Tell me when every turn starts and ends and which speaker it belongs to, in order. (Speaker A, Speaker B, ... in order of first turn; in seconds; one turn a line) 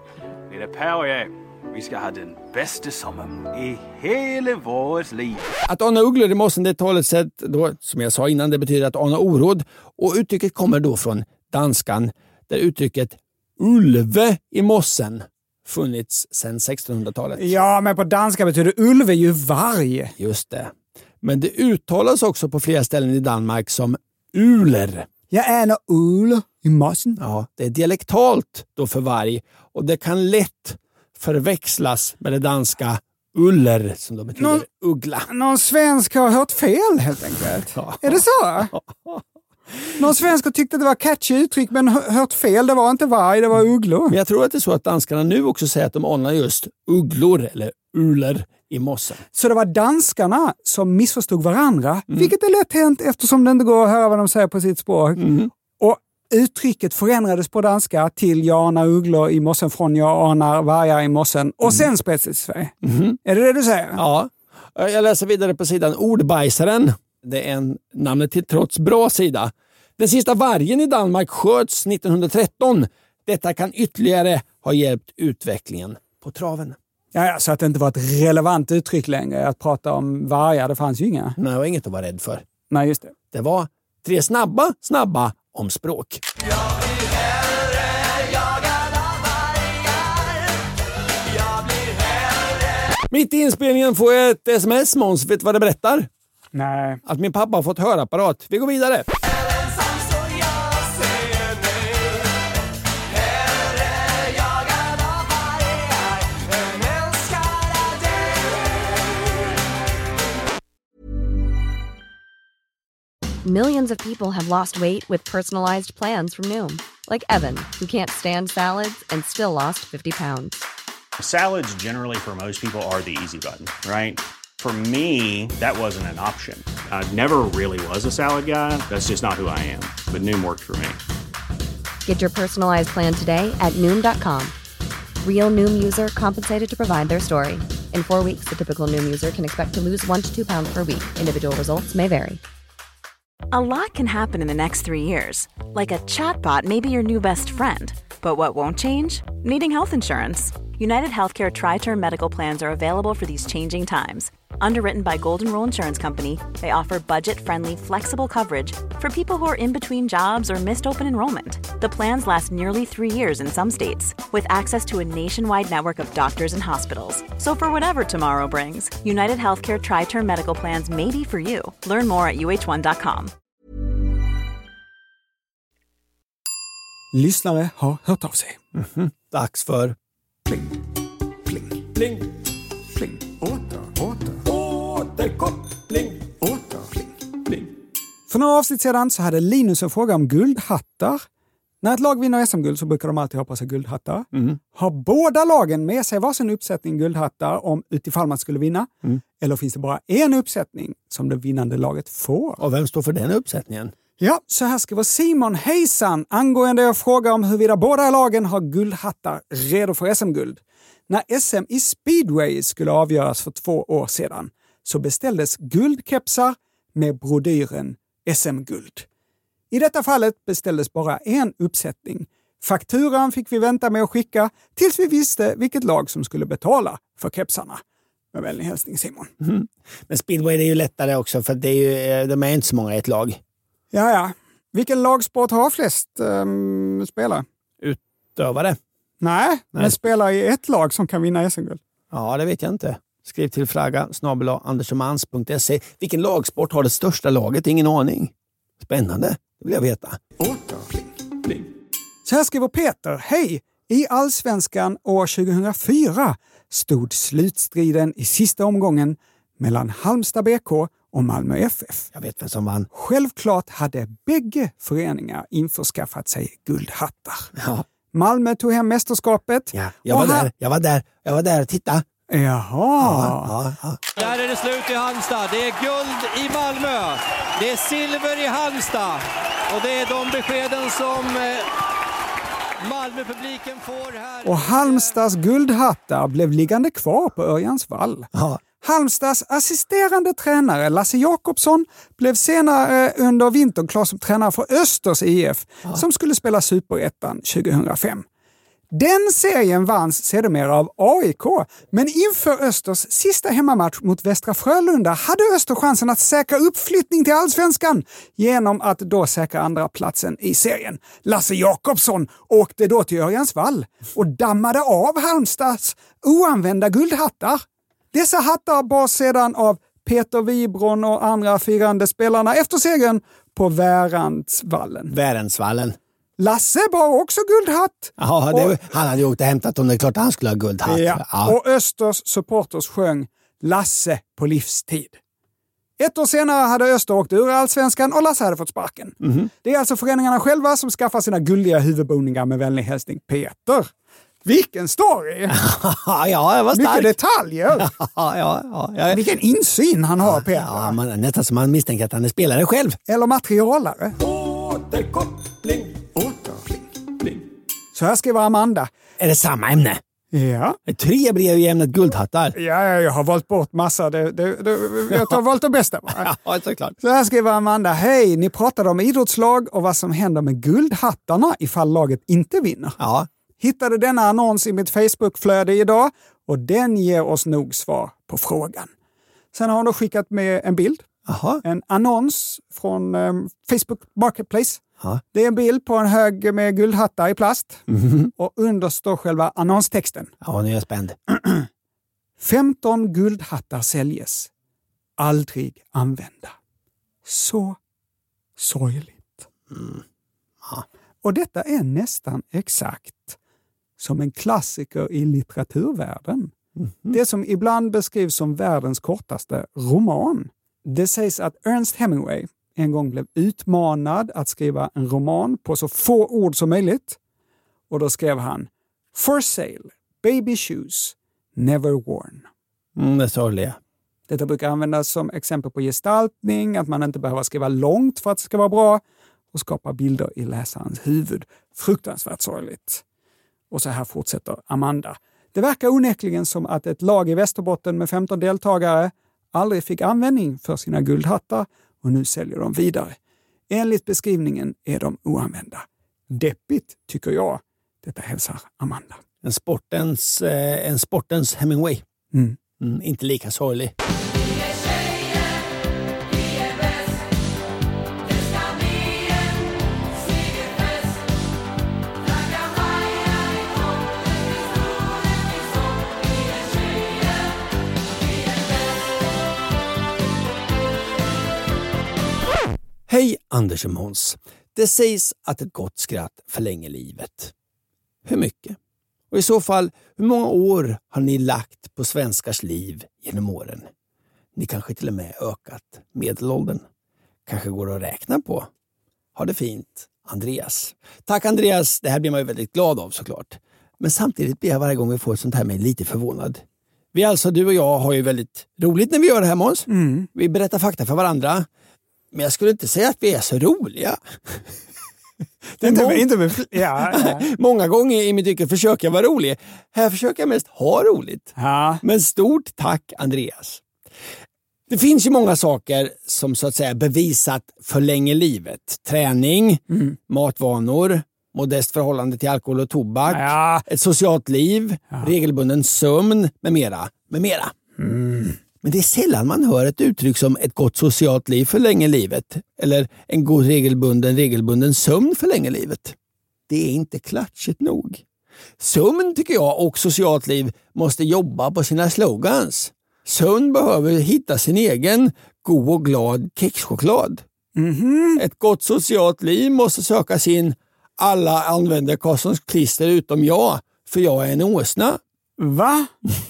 Speaker A: 0.5-5.5
Speaker B: 5.7-17.6
Speaker C: 17.4-20.1
Speaker B: 20.2-25.1
Speaker C: 25.3-27.2
Speaker B: 27.2-35.3
Speaker C: 34.4-34.6
Speaker C: 35.3-38.7
Speaker B: 37.8-39.2
Speaker C: 40.0-44.1
Speaker B: 44.1-49.2
Speaker C: 49.3-64.0
Speaker B: 55.2-55.5
Speaker B: 62.8-63.2
Speaker B: 64.0-76.8
Speaker C: 77.1-81.4
Speaker B: 81.4-82.4
Speaker C: 82.7-83.1
Speaker B: 83.3-86.2
Speaker B: 93.1-96.1
Speaker C: 96.5-97.0
Speaker B: 97.0-99.1
Speaker D: 113.4-120.7
Speaker E: 121.2-131.0
Speaker D: 132.1-134.5
Speaker D: 135.2-142.4
Speaker F: 143.5-173.3
Speaker C: 177.1-178.6
Speaker B: 178.7-179.9
Speaker B: 181.9-182.2
Speaker C: 183.2-184.4
Speaker B: 184.4-186.3
Speaker C: 188.3-191.2
Speaker C: 191.8-202.6
Speaker B: 202.6-203.9
Speaker C: 204.2-219.1
Speaker C: 219.7-227.8
Speaker C: 228.3-229.3
Speaker B: 229.4-233.4
Speaker C: 233.9-237.4
Speaker B: 237.8-238.8
Speaker C: 239.2-241.8
Speaker B: 242.1-250.2
Speaker C: 250.4-251.1
Speaker C: 252.2-262.1
Speaker B: 262.1-262.9
Speaker C: 262.9-267.5
Speaker B: 267.6-267.8
Speaker C: 268.1-270.5
Speaker B: 269.7-272.0
Speaker C: 272.3-273.5
Speaker B: 273.0-274.0
Speaker G: 274.1-281.7
Speaker G: 282.8-285.1
Speaker C: 284.4-288.3
Speaker B: 288.3-288.6
Speaker C: 288.8-298.2
Speaker C: 298.9-325.1
Speaker B: 325.1-326.0
Speaker C: 326.4-328.8
Speaker B: 328.2-331.6
Speaker C: 330.9-335.2
Speaker C: 336.0-343.9
Speaker B: 339.2-339.5
Speaker C: 344.4-345.6
Speaker B: 345.5-347.1
Speaker C: 346.7-347.9
Speaker B: 347.8-349.2
Speaker C: 349.1-351.0
Speaker B: 350.2-353.0
Speaker C: 353.1-354.2
Speaker B: 354.2-356.0
Speaker C: 356.1-356.8
Speaker C: 357.9-358.9
Speaker B: 359.2-360.0
Speaker C: 360.3-360.8
Speaker B: 360.9-362.6
Speaker C: 362.5-366.3
Speaker B: 366.1-367.0
Speaker C: 367.0-373.0
Speaker B: 373.0-373.3
Speaker C: 373.6-378.9
Speaker C: 379.5-381.1
Speaker B: 381.3-381.6
Speaker C: 381.6-387.8
Speaker B: 387.9-388.3
Speaker C: 388.4-390.3
Speaker B: 390.4-391.2
Speaker C: 391.4-391.7
Speaker C: 392.4-394.5
Speaker C: 395.2-396.6
Speaker C: 397.2-397.8
Speaker C: 398.6-399.4
Speaker B: 399.7-400.0
Speaker C: 401.2-403.4
Speaker C: 404.0-406.5
Speaker C: 407.1-417.2
Speaker C: 417.9-422.5
Speaker B: 422.9-423.8
Speaker C: 424.3-429.0
Speaker C: 429.5-433.0
Speaker C: 433.7-443.2
Speaker C: 443.7-449.2
Speaker B: 449.4-452.0
Speaker C: 452.3-452.6
Speaker B: 452.8-453.9
Speaker B: 473.1-477.5
Speaker B: 478.2-478.8
Speaker B: 479.3-483.9
Speaker B: 484.5-486.9
Speaker B: 487.5-488.7
Speaker B: 489.3-496.6
Speaker B: 497.1-501.7
Speaker C: 499.9-500.3
Speaker B: 502.3-504.6
Speaker B: 505.7-513.8
Speaker C: 505.8-507.5
Speaker C: 511.6-512.0
Speaker B: 514.9-527.7
Speaker C: 523.3-523.9
Speaker C: 528.0-528.6
Speaker B: 528.8-536.1
Speaker B: 536.7-538.2
Speaker B: 538.8-547.4
Speaker C: 547.8-548.4
Speaker B: 548.4-555.2
Speaker C: 555.6-556.1